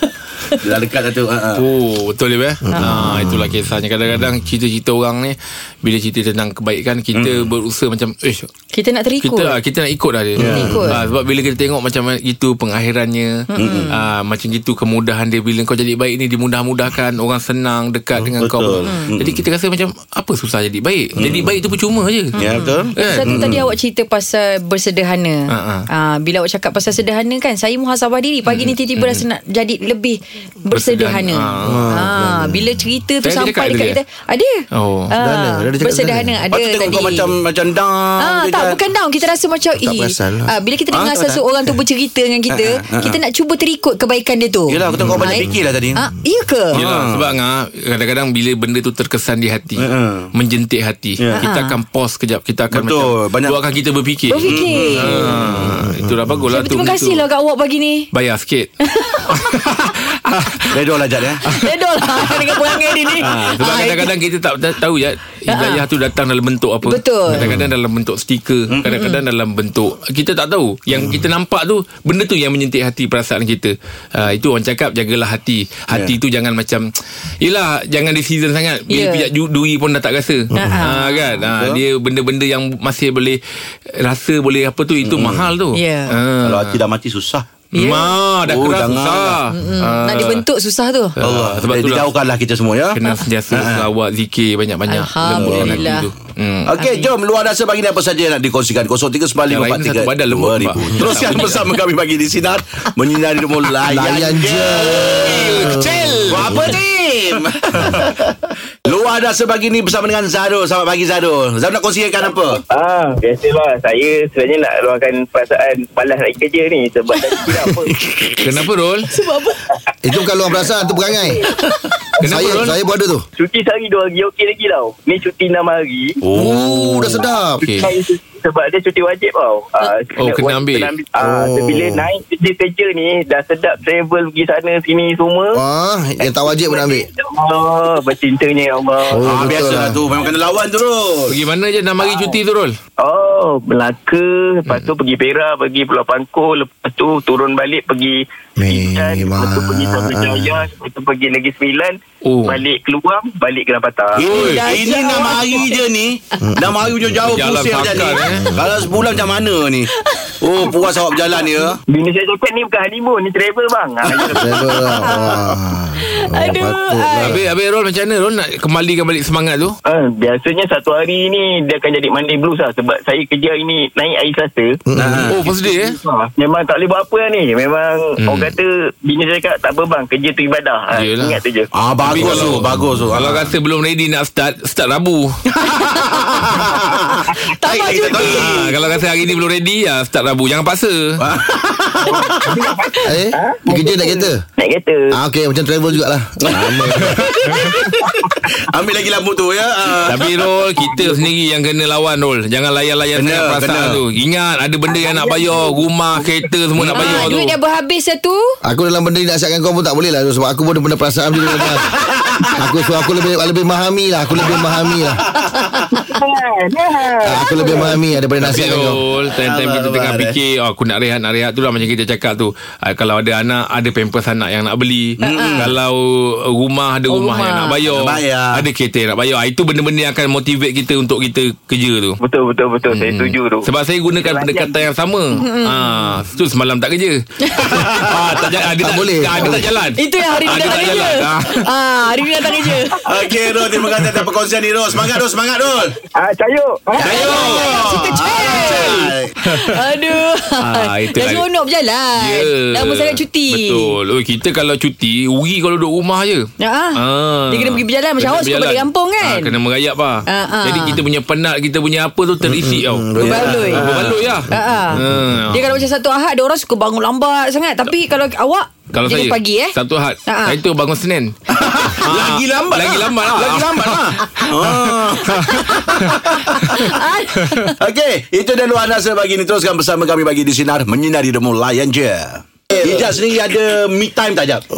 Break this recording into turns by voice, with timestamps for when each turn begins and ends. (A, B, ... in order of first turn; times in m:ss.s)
0:00.6-0:01.6 A
0:01.6-0:08.5 B
0:02.6-0:03.5 C
0:07.1-0:07.5 A
0:08.7-0:09.6 D
0:09.2-0:23.4 B
0:10.4-0:10.8 A
0:10.5-0:11.0 D
0:13.5-0:13.9 D
0:13.6-0:13.9 A
0:18.3-0:19.4 A
0:21.2-0:21.5 A
0:22.4-0:23.7 A
0:22.5-0:37.3 D
0:25.5-0:25.9 B
0:28.4-0:29.2 B
0:30.7-0:31.9 B
0:31.6-0:32.8 C
0:33.2-0:34.0 B
0:34.7-0:35.1 B
0:35.2-0:36.4 C
0:36.5-0:38.8 A
0:38.2-0:46.8 D
0:39.8-0:40.5 C
0:40.9-0:41.4 A
0:42.5-0:43.2 A
0:44.7-0:46.0 A
0:46.7-0:47.3 A
0:46.7-0:57.2 B
0:49.8-0:50.3 A
0:51.2-0:51.4 A
0:51.4-0:51.8 D
0:52.7-0:53.6 A
0:54.3-0:55.2 D
0:54.4-0:55.8 A
0:56.5-0:58.1 D
0:58.1-0:58.7 B
0:58.8-0:59.3 D
0:59.2-1:00.9 B
1:00.7-1:01.4 A
1:01.4-1:04.1 D
1:03.2-1:16.9 B
1:05.5-1:05.8 D
1:06.8-1:07.5 D
1:08.8-1:09.2 D
1:17.4-1:23.4 B
1:18.9-1:19.3 D
1:20.5-1:21.3 D
1:21.5-1:21.8 A
1:24.0-1:26.8 B
1:25.0-1:25.5 A
1:25.7-1:26.1 D
1:26.4-1:27.4 A
1:27.7-1:28.1 D
1:27.7-1:30.4 B
1:28.4-1:29.4 A
1:29.5-1:31.2 D
1:31.2-1:32.1 B
1:31.2-1:33.0 A
1:32.9-1:36.7 B
1:33.5-1:33.8 A
1:34.9-1:36.1 D
1:35.3-1:35.9 A
1:36.7-1:45.6 A
1:36.8-1:37.1 D
1:39.5-1:41.7 B
1:43.8-1:46.6 C
1:44.9-1:46.7 B
1:46.3-1:48.2 A
1:48.8-1:52.6 A
1:52.5-1:58.1 E
1:58.4-1:59.1 B
1:59.1-1:59.5 D
2:00.0-2:01.4 C
2:02.2-2:02.8 B
2:02.2-2:03.2 C
2:03.4-2:06.2 E
2:06.2-2:06.6 A
2:06.4-2:07.7 C
2:06.4-2:07.9 B
2:07.7-2:15.6 E
2:10.1-2:11.0 B
2:11.2-2:12.1 C
2:15.5-2:17.1 C
2:16.2-2:19.7 E
2:19.1-2:20.0 C
2:19.2-2:21.4 A
2:21.3-2:22.8 B
2:23.0-2:34.3 E
2:24.6-2:24.9 B
2:28.6-2:30.6 C
2:32.2-2:32.6 B
2:34.1-2:41.8 A
2:34.2-2:34.8 B
2:34.3-2:35.8 D
2:36.4-2:37.4 C
2:37.3-2:38.4 B
2:38.2-2:39.3 C
2:41.9-2:44.6 E
2:44.2-2:47.4 C
2:44.8-2:47.4 D
2:47.2-2:49.8 B
2:49.8-2:54.8 E
2:54.9-2:55.3 C
2:55.0-2:55.4 A
2:55.2-2:56.0 B
2:55.4-3:01.7 E
2:58.2-2:58.6 B
3:00.9-3:01.4 B
3:01.7-3:03.5 A
3:02.0-3:05.5 B
3:05.6-3:07.0 A
3:07.5-3:09.0 D
3:07.6-3:08.8 A
3:08.1-3:11.1 B
3:11.2-3:12.6 A
3:12.4-3:15.1 E
3:13.0-3:14.4 C
3:15.1-3:17.2 C
3:16.4-3:20.5 A
3:20.0-3:27.5 B
3:23.1-3:24.0 A
3:26.8-3:27.3 A
3:26.9-3:28.6 D
3:28.6-3:31.9 C
3:31.6-3:32.5 A
3:32.5-3:35.2 C
3:36.1-3:37.9 E
3:37.2-3:39.0 C
3:38.4-3:52.2 B
3:39.3-3:40.4 A
3:45.2-3:45.7 A
3:45.3-3:45.7 D
3:47.1-3:47.8 D
3:47.9-3:48.6 A
3:52.2-3:54.8 E
3:52.9-4:01.7 B
3:55.3-3:56.2 D
3:57.5-3:57.7 D
3:57.6-3:58.4 A
3:58.8-3:59.7 C
3:59.9-4:03.3 D
4:03.0-4:05.9 A
4:06.2-4:07.2 E
4:07.0-4:09.3 A
4:07.0-4:07.8 B
4:07.0-4:13.9 D
4:08.5-4:09.7 B
4:10.6-4:11.4 B
4:12.2-4:25.7 B
4:16.6-4:19.6 D
4:20.3-4:21.0 D
4:22.4-4:25.3 C
4:23.2-4:23.9 D
4:23.6-4:24.2 A
4:24.5-4:29.7 D
4:28.9-4:31.4 B
4:30.2-4:30.6 D
4:31.5-4:36.8 A
4:32.0-4:34.9 B
4:35.3-4:35.9 D
4:36.5-4:37.7 D
4:37.8-4:44.6 A
4:42.7-4:43.1 D